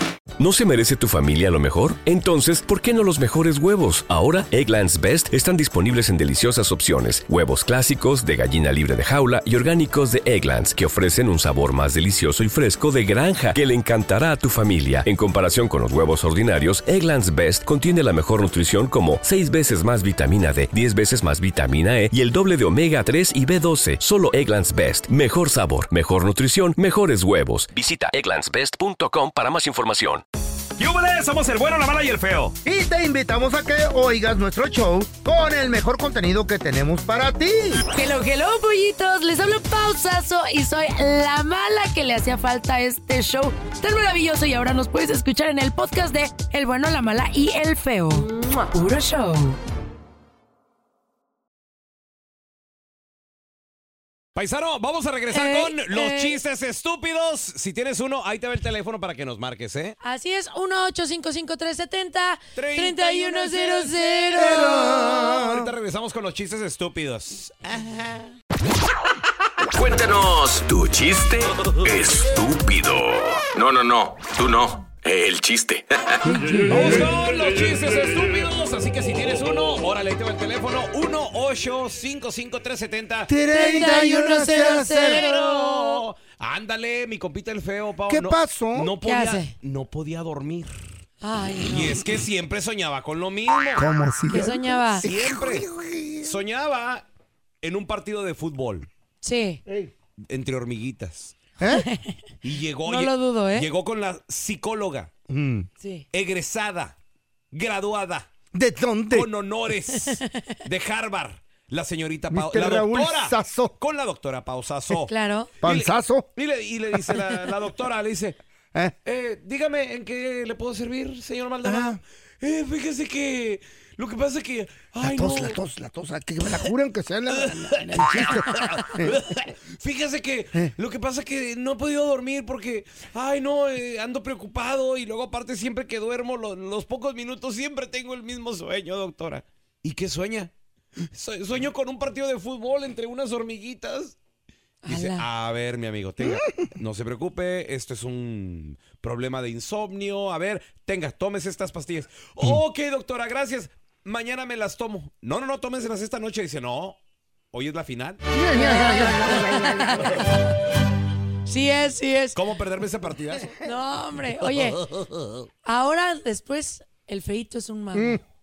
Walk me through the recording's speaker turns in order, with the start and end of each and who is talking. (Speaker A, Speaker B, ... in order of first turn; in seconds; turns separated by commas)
Speaker A: 0.4-30.2, Speaker B: 30.8-32.6, Speaker C: 32.6-37.8, Speaker D: 37.9-49.5, Speaker B: 54.3-60.0, Speaker D: 55.3-56.4, Speaker D: 60.0-64.9, Speaker B: 62.5-68.2, Speaker C: 64.3-65.7, Speaker E: 69.7-76.3, Speaker C: 76.2-77.1, Speaker B: 76.6-83.3, Speaker C: 83.3-85.2, Speaker D: 83.5-86.0, Speaker B: 84.9-90.7, Speaker C: 88.1-88.9, Speaker D: 89.0-89.5, Speaker D: 91.2-92.0, Speaker B: 91.7-93.8, Speaker C: 93.8-96.4, Speaker D: 94.3-95.0, Speaker B: 95.0-95.7, Speaker B: 96.2-97.0, Speaker B: 97.6-98.9, Speaker D: 99.2-99.6, Speaker C: 99.7-99.9, Speaker B: 100.3-101.4, Speaker C: 101.6-101.8, Speaker D: 101.6-102.2, Speaker B: 102.4-105.1, Speaker D: 102.8-103.7, Speaker C: 105.3-105.7, Speaker B: 106.1-107.0, Speaker B: 107.5-108.3, Speaker C: 108.5-109.3, Speaker B: 109.1-115.1, Speaker D: 110.1-110.5, Speaker C: 112.3-113.7, Speaker D: 115.0-115.5, Speaker C: 115.6-116.3, Speaker B: 115.6-118.4, Speaker B: 119.0-125.6, Speaker C: 121.6-122.0, Speaker C: 125.0-129.2, Speaker B: 127.3-140.5, Speaker B: 141.1-144.2, Speaker D: 144.8-145.2, Speaker B: 144.8-157.0, Speaker B: 157.5-158.2, Speaker C: 158.3-160.2, Speaker D: 158.5-160.3, Speaker D: 161.5-162.4, Speaker B: 162.3-163.6, Speaker D: 163.6-164.8, Speaker D: 165.7-168.2, Speaker C: 167.9-168.2